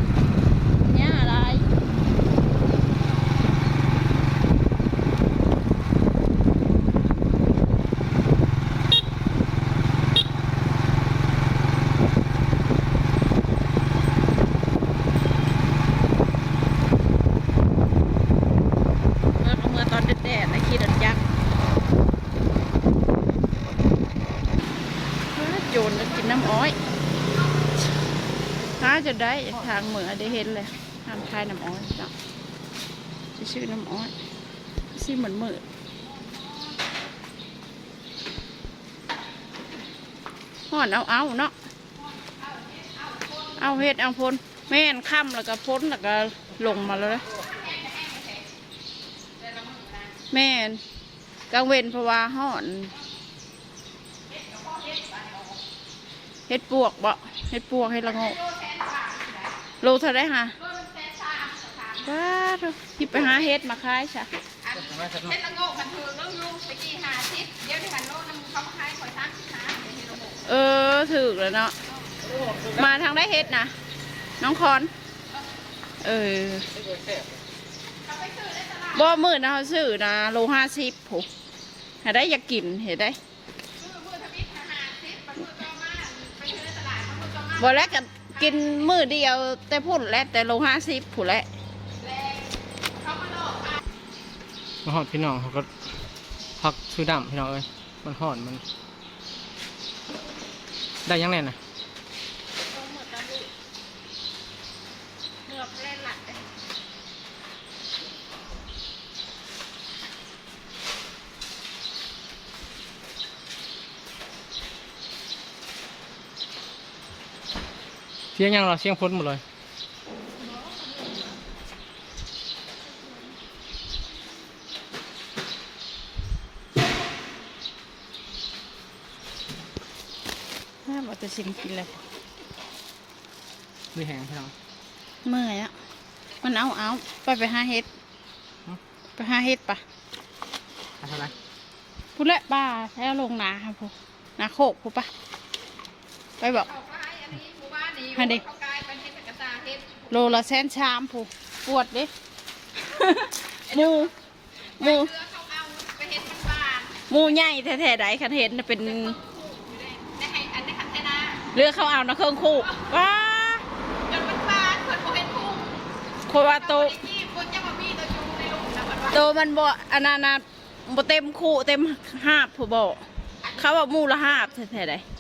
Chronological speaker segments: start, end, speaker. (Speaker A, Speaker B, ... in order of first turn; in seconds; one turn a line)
Speaker A: 0.8-1.7
Speaker A: 19.4-21.3
Speaker A: 25.3-26.8
Speaker A: 28.7-32.1
Speaker A: 33.3-34.1
Speaker A: 34.9-35.6
Speaker A: 40.7-41.5
Speaker B: 42.2-43.6
Speaker A: 43.5-47.4
Speaker B: 47.4-48.5
Speaker B: 49.4-50.2
Speaker A: 50.3-50.8
Speaker A: 51.5-53.0
Speaker B: 54.3-55.6
Speaker A: 56.5-58.4
Speaker B: 58.4-59.5
Speaker A: 59.8-60.6
Speaker B: 60.6-62.0
Speaker A: 61.9-64.3
Speaker B: 64.7-70.3
Speaker C: 64.7-65.4
Speaker A: 70.4-71.8
Speaker C: 72.4-72.8
Speaker A: 72.7-73.7
Speaker A: 74.4-74.9
Speaker A: 76.0-76.7
Speaker C: 77.0-77.2
Speaker B: 78.0-79.0
Speaker A: 78.9-81.3
Speaker A: 82.0-83.2
Speaker B: 83.8-87.6
Speaker A: 87.5-91.5
Speaker B: 92.0-93.8
Speaker C: 94.8-95.7
Speaker C: 96.6-98.6
Speaker C: 101.0-101.6
Speaker A: 102.7-103.5
Speaker A: 105.5-106.5
Speaker C: 118.3-119.4
Speaker A: 130.8-132.0
Speaker C: 133.9-134.5
Speaker A: 135.2-135.7
Speaker A: 136.4-137.9
Speaker A: 139.2-139.8
Speaker C: 141.0-141.3
Speaker A: 142.2-145.1
Speaker A: 146.4-146.7
Speaker B: 146.7-150.1
Speaker A: 148.1-148.5
Speaker A: 150.1-152.1
Speaker A: 152.8-154.1
Speaker B: 153.7-154.1
Speaker A: 154.8-155.1
Speaker B: 154.8-157.0
Speaker A: 157.1-159.2
Speaker B: 159.0-161.4
Speaker A: 161.5-163.7
Speaker B: 164.1-165.8
Speaker A: 166.3-167.0
Speaker B: 166.5-169.1
Speaker A: 169.1-175.0